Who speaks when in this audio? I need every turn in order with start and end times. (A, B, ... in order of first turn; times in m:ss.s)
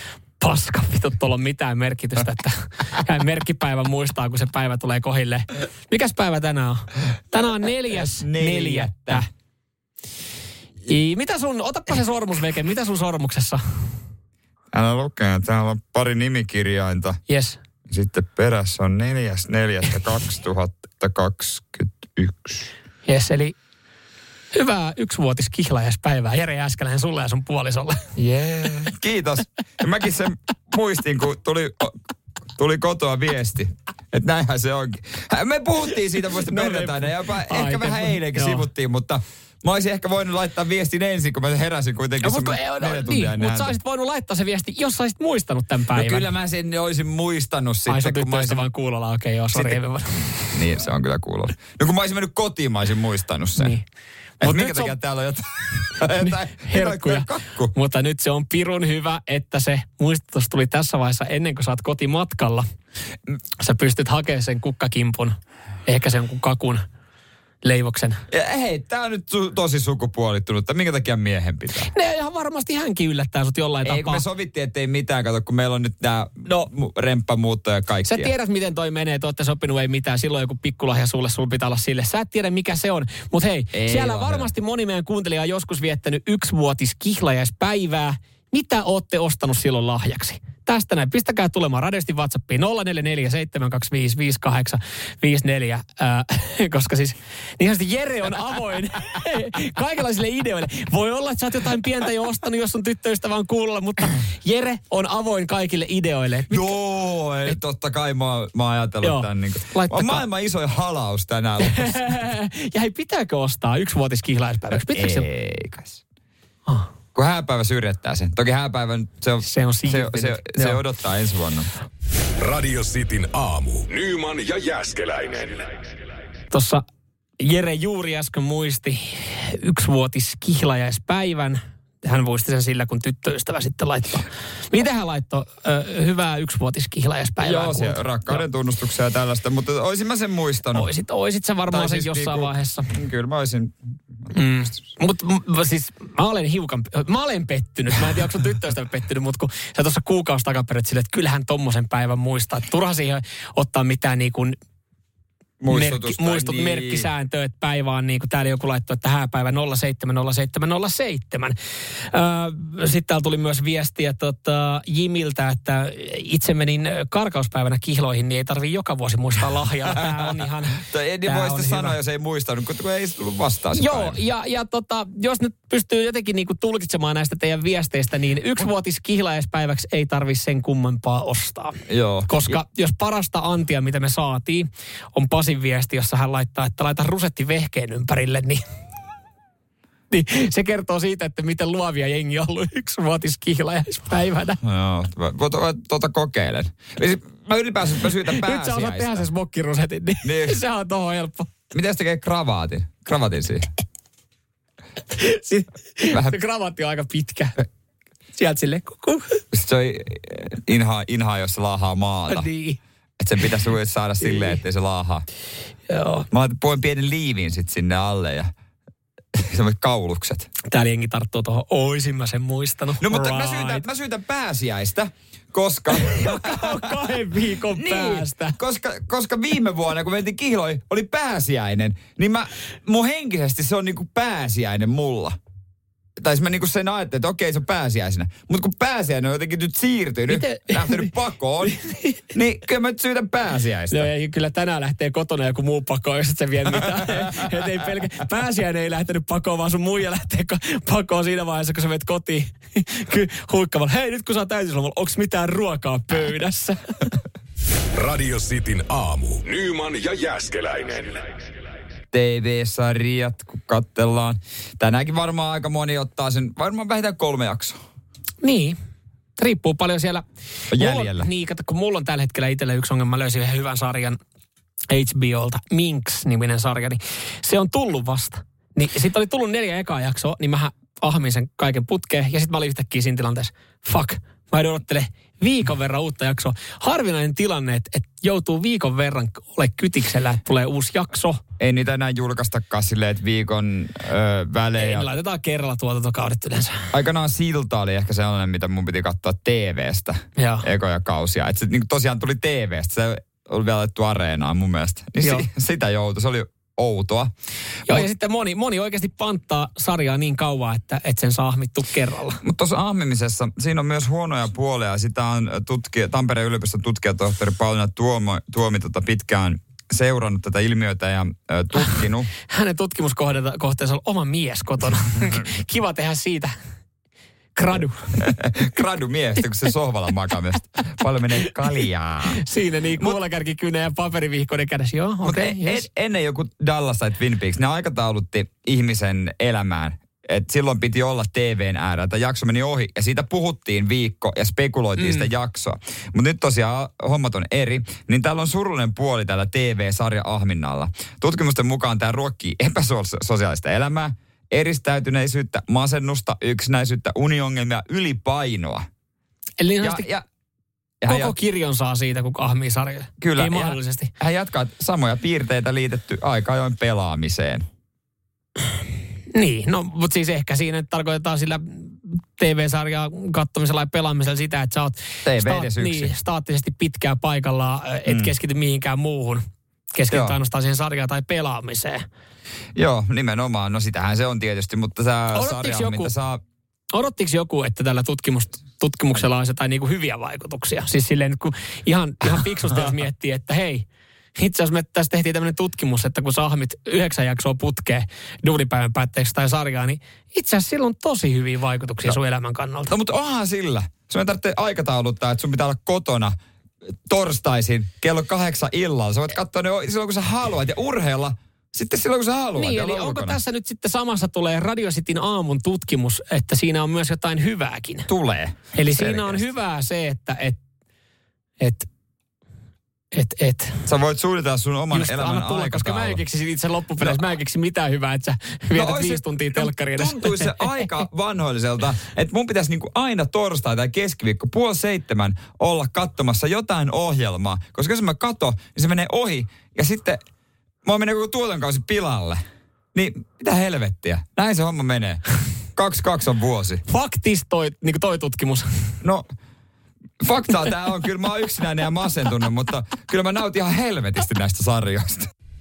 0:00.4-0:09.3 A
0:07.9-0:09.2 B
0:10.9-0:13.9 A
0:14.7-0:17.2 B
0:17.3-0:17.6 A
0:17.9-0:22.7 B
0:23.0-0:23.6 A
0:24.5-0:28.1 A
0:28.2-0:32.0 B
0:32.6-0:43.7 B
0:36.4-0:38.6 A
0:42.2-0:46.2 A
0:45.9-0:48.6 B
0:47.9-0:50.5 A
0:49.5-0:49.8 B
0:50.4-0:53.8 B
0:53.6-0:53.8 A
0:54.4-0:57.7 B
0:54.4-0:54.9 A
0:56.2-1:02.6 A
1:03.6-1:06.8 A
1:07.6-1:08.2 A
1:08.3-1:11.9 B
1:11.9-1:14.2 A
1:13.8-1:18.3 B
1:18.1-1:46.7 A
1:23.7-1:24.5 B
1:46.5-1:52.2 B
1:49.0-1:50.2 A
1:51.6-1:55.2 A
1:54.9-1:56.0 B
1:57.1-2:01.7 B
1:59.4-2:00.8 A
2:02.4-2:05.8 C
2:06.5-2:06.8 A
2:07.4-2:18.4 A
2:17.4-2:20.9 B
2:20.7-2:22.9 A
2:21.7-2:24.3 B
2:24.3-2:34.6 A
2:35.6-2:37.1 B
2:35.7-2:52.0 A
2:49.9-2:54.2 B
2:53.7-3:08.6 A
3:01.9-3:02.6 B
3:10.1-3:14.6 A
3:14.6-3:19.2 B
3:18.3-3:21.5 A
3:20.2-3:20.6 B
3:21.7-3:23.7 B
3:25.1-3:27.6 A
3:26.1-3:26.4 B
3:28.3-3:29.4 A
3:29.5-3:32.5 B
3:32.3-3:32.8 A
3:33.2-3:35.2 B
3:34.3-3:34.6 A
3:35.9-3:36.2 A
3:36.3-3:38.5 B
3:39.3-3:40.5 B
3:40.7-3:43.8 A
3:43.0-3:47.2 B
3:45.9-3:48.6 A
3:47.7-3:55.4 B
3:56.2-4:01.8 B
4:00.3-4:01.1 A
4:01.6-4:02.2 A
4:02.3-4:04.1 B
4:03.9-4:17.1 A
4:06.7-4:07.6 B
4:18.0-4:21.3 C
4:22.1-4:27.8 B
4:28.4-4:28.8 A
4:29.4-4:34.2 A
4:30.7-4:31.3 B
4:34.9-4:51.4 A
4:51.6-4:55.1 B
4:54.8-4:56.9 A
4:56.9-5:07.3 B
5:00.4-5:00.7 A
5:05.2-5:05.5 A
5:07.9-5:12.4 A
5:12.4-5:22.3 B
5:22.5-5:26.5 A
5:27.5-5:28.3 A
5:28.2-5:32.4 B
5:32.3-5:35.9 A
5:35.2-5:58.9 B
5:45.0-5:45.3 A
5:59.6-6:00.1 A
5:59.8-6:00.2 B
6:01.0-6:01.3 B
6:01.1-6:04.1 A
6:03.2-6:07.6 B
6:09.3-6:22.0 A
6:15.2-6:16.1 B
6:18.0-6:18.3 B
6:20.1-6:20.4 B
6:22.8-6:26.4 B
6:25.3-6:26.1 A
6:26.9-6:42.9 A
6:42.9-6:46.3 B
6:47.0-6:53.4 B
6:52.5-6:58.1 A
6:58.1-6:59.5 B
6:58.7-7:00.6 A
7:01.6-7:01.9 A
7:03.1-7:03.8 A
7:03.8-7:06.2 B
7:04.9-7:10.8 A
7:08.8-7:20.2 B
7:20.8-7:22.4 B
7:22.9-7:25.2 B
7:25.7-7:26.8 B
7:26.9-7:28.8 A
7:30.2-7:35.3 B